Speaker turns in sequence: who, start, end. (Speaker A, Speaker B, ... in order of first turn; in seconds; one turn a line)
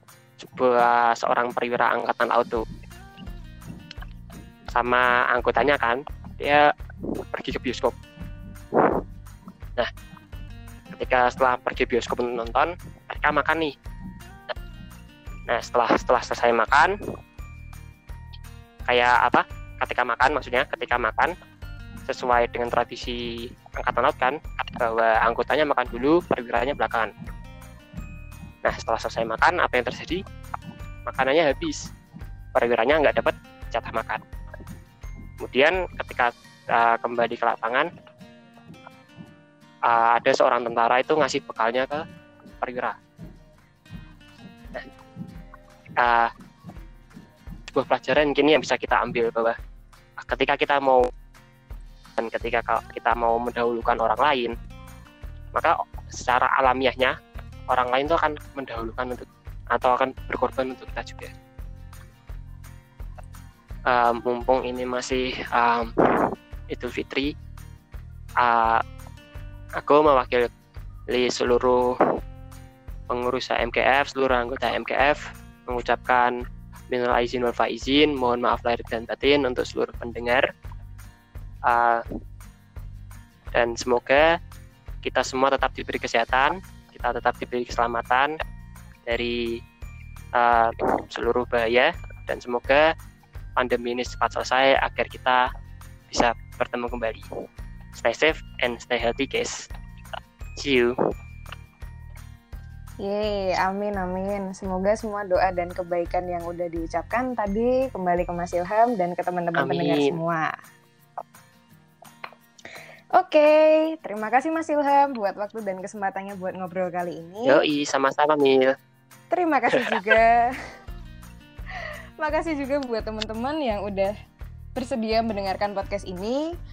Speaker A: 0.4-2.6
Speaker A: 4.7-6.6
Speaker A: 7.3-8.0
Speaker A: 10.9-13.7
Speaker A: 15.5-16.9
Speaker A: 18.9-21.3
Speaker A: 22.1-27.1
Speaker A: 28.6-30.2
Speaker A: 31.1-31.8
Speaker A: 32.5-34.2
Speaker A: 35.4-37.9
Speaker A: 39.9-42.0
Speaker A: 42.6-42.9
Speaker A: 46.0-46.3
Speaker A: 47.7-49.5
Speaker A: 50.2-51.1
Speaker A: 52.2-54.5
Speaker A: 55.5-57.1
Speaker A: 57.7-61.3
Speaker A: 63.9-67.3
Speaker A: 68.4-68.8
Speaker A: 69.8-70.5
Speaker A: 71.1-71.9
Speaker A: 73.1-76.3
Speaker A: 76.9-80.4
Speaker A: 81.7-82.0
Speaker A: 83.5-84.3
Speaker A: 85.0-88.3
Speaker A: 89.1-89.5
Speaker A: 90.3-92.8
Speaker A: 93.6-95.4
Speaker A: 96.1-97.2
Speaker A: 97.9-99.6
Speaker A: 100.6-100.9
Speaker B: 103.0-110.5
Speaker A: 109.6-110.2
Speaker B: 113.1-117.6
Speaker A: 117.5-118.7
Speaker B: 119.3-120.5
Speaker B: 122.2-124.1
Speaker B: 124.7-126.4